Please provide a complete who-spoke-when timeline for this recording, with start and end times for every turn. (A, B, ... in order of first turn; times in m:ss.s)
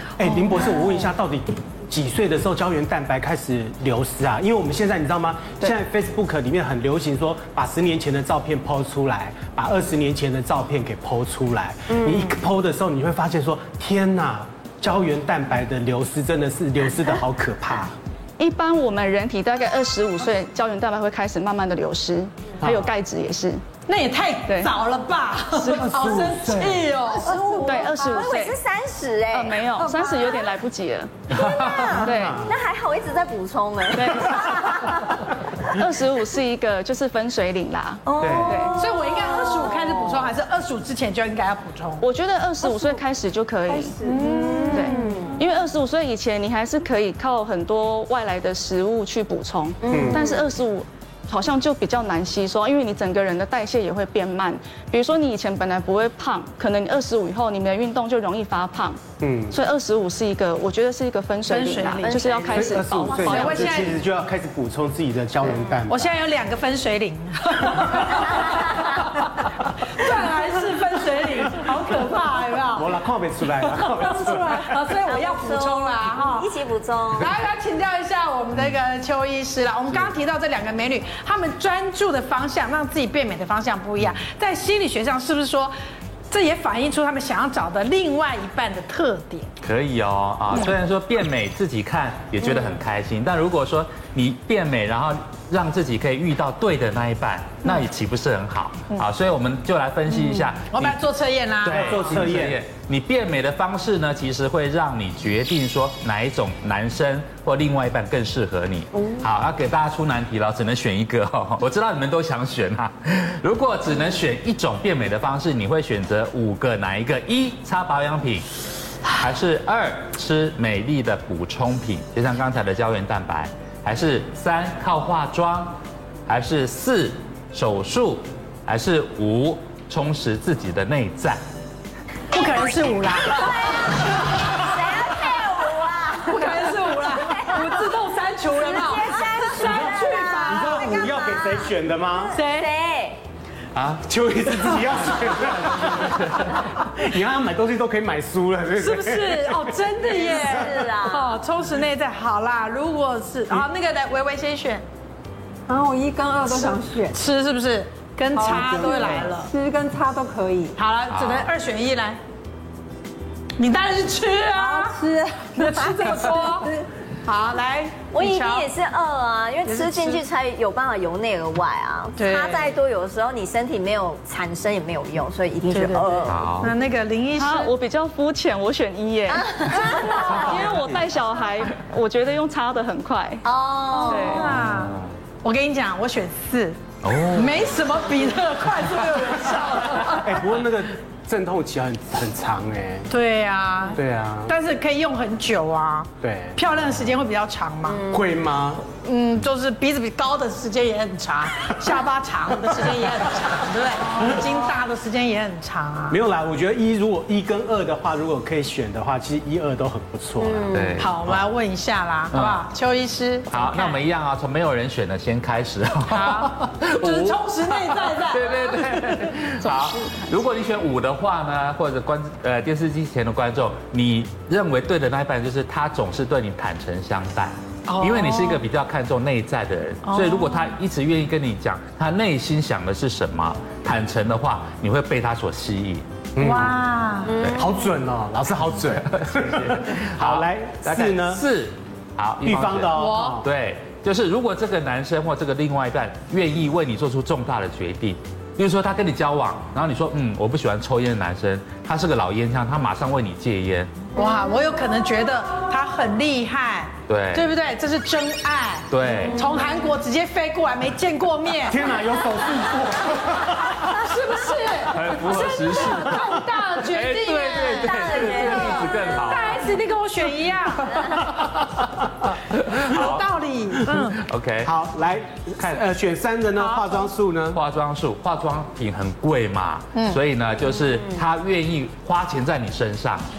0:00.2-0:17.9 A
0:11.9-0:12.3 B
0:18.4-0:23.6 C
0:22.6-0:22.9 A
0:23.9-0:27.8 D
0:25.6-0:26.1 C
0:25.6-0:27.0 A
0:27.2-0:30.3 B
0:27.6-0:28.6 C
0:29.3-0:32.5 C
0:31.3-0:35.7 B
0:31.6-0:32.5 A
0:33.9-0:35.0 C
0:35.7-0:38.8 C
0:38.0-0:40.3 B
0:38.2-0:38.6 A
0:38.7-0:42.0 D
0:42.0-0:44.0 C
0:44.0-0:45.1 E
0:44.0-0:45.4 B
0:44.2-0:44.7 D
0:44.7-1:04.0 C
0:49.8-0:50.4 B
0:49.9-0:50.2 A
0:59.2-0:59.6 A
1:01.5-1:04.0 D
1:02.0-1:02.5 B
1:02.5-1:06.1 A
1:05.5-1:05.8 B
1:05.9-1:12.9 D
1:08.1-1:09.1 B
1:12.7-1:14.7 A
1:13.7-1:16.5 D
1:15.0-1:17.3 B
1:17.2-1:25.7 D
1:26.3-1:29.5 D
1:29.6-1:41.0 F
1:40.7-1:42.1 D
1:41.6-1:58.4 F
1:41.7-1:42.6 A
1:59.1-2:11.4 F
2:12.3-2:13.8 D
2:13.4-2:17.9 B
2:16.2-2:20.9 D
2:18.6-2:23.2 B
2:19.6-2:22.4 A
2:22.3-2:22.7 D
2:23.8-2:24.0 F
2:24.0-2:29.8 A
2:28.8-2:34.8 D
2:30.0-2:31.4 B
2:35.7-2:37.2 E
2:37.1-2:39.5 D
2:38.3-2:40.8 E
2:40.8-2:42.2 D
2:41.1-2:41.5 F
2:43.6-2:46.7 D
2:44.5-2:46.9 E
2:47.2-2:48.7 D
2:48.1-2:56.5 B
2:49.6-2:50.2 D
2:52.2-2:52.7 D
2:55.7-2:57.7 D
2:56.3-2:56.7 F
2:57.4-3:03.4 C
2:59.4-3:00.6 B
3:00.3-3:00.8 F
3:03.4-3:04.6 B
3:03.9-3:06.8 D
3:04.0-3:04.4 C
3:04.6-3:05.1 F
3:07.0-3:07.7 F
3:07.3-3:10.4 D
3:10.2-3:13.1 A
3:13.1-3:18.0 D
3:14.0-3:14.5 A
3:16.2-3:16.6 A
3:17.9-3:18.2 B
3:18.0-3:18.8 A
3:19.0-3:26.2 D
3:26.1-3:30.7 A
3:30.4-3:31.0 B
3:30.7-3:31.4 F
3:31.0-3:34.0 D
3:32.3-3:32.6 F
3:33.5-3:56.0 F
3:36.1-3:39.4 D
3:47.9-3:48.6 D
3:50.0-3:50.7 D
3:56.4-3:56.8 A
3:56.4-3:57.4 D
3:57.2-3:57.7 B
3:57.3-3:57.6 F
3:57.6-4:01.4 A
3:59.1-4:13.9 F
4:02.4-4:03.5 A
4:03.0-4:03.4 D
4:14.1-4:22.0 D
4:17.1-4:17.5 F
4:18.9-4:19.4 F
4:21.7-4:23.9 A
4:23.7-4:31.5 D
4:24.9-4:26.2 F
4:26.8-4:29.7 F
4:27.6-4:29.6 B
4:30.9-4:31.2 B
4:31.3-4:31.7 F
4:32.3-4:33.3 F
4:32.8-4:34.2 D
4:34.0-4:34.7 F
4:34.6-4:37.6 A
4:36.6-4:37.1 D
4:37.5-4:43.2 F
4:39.9-4:40.2 D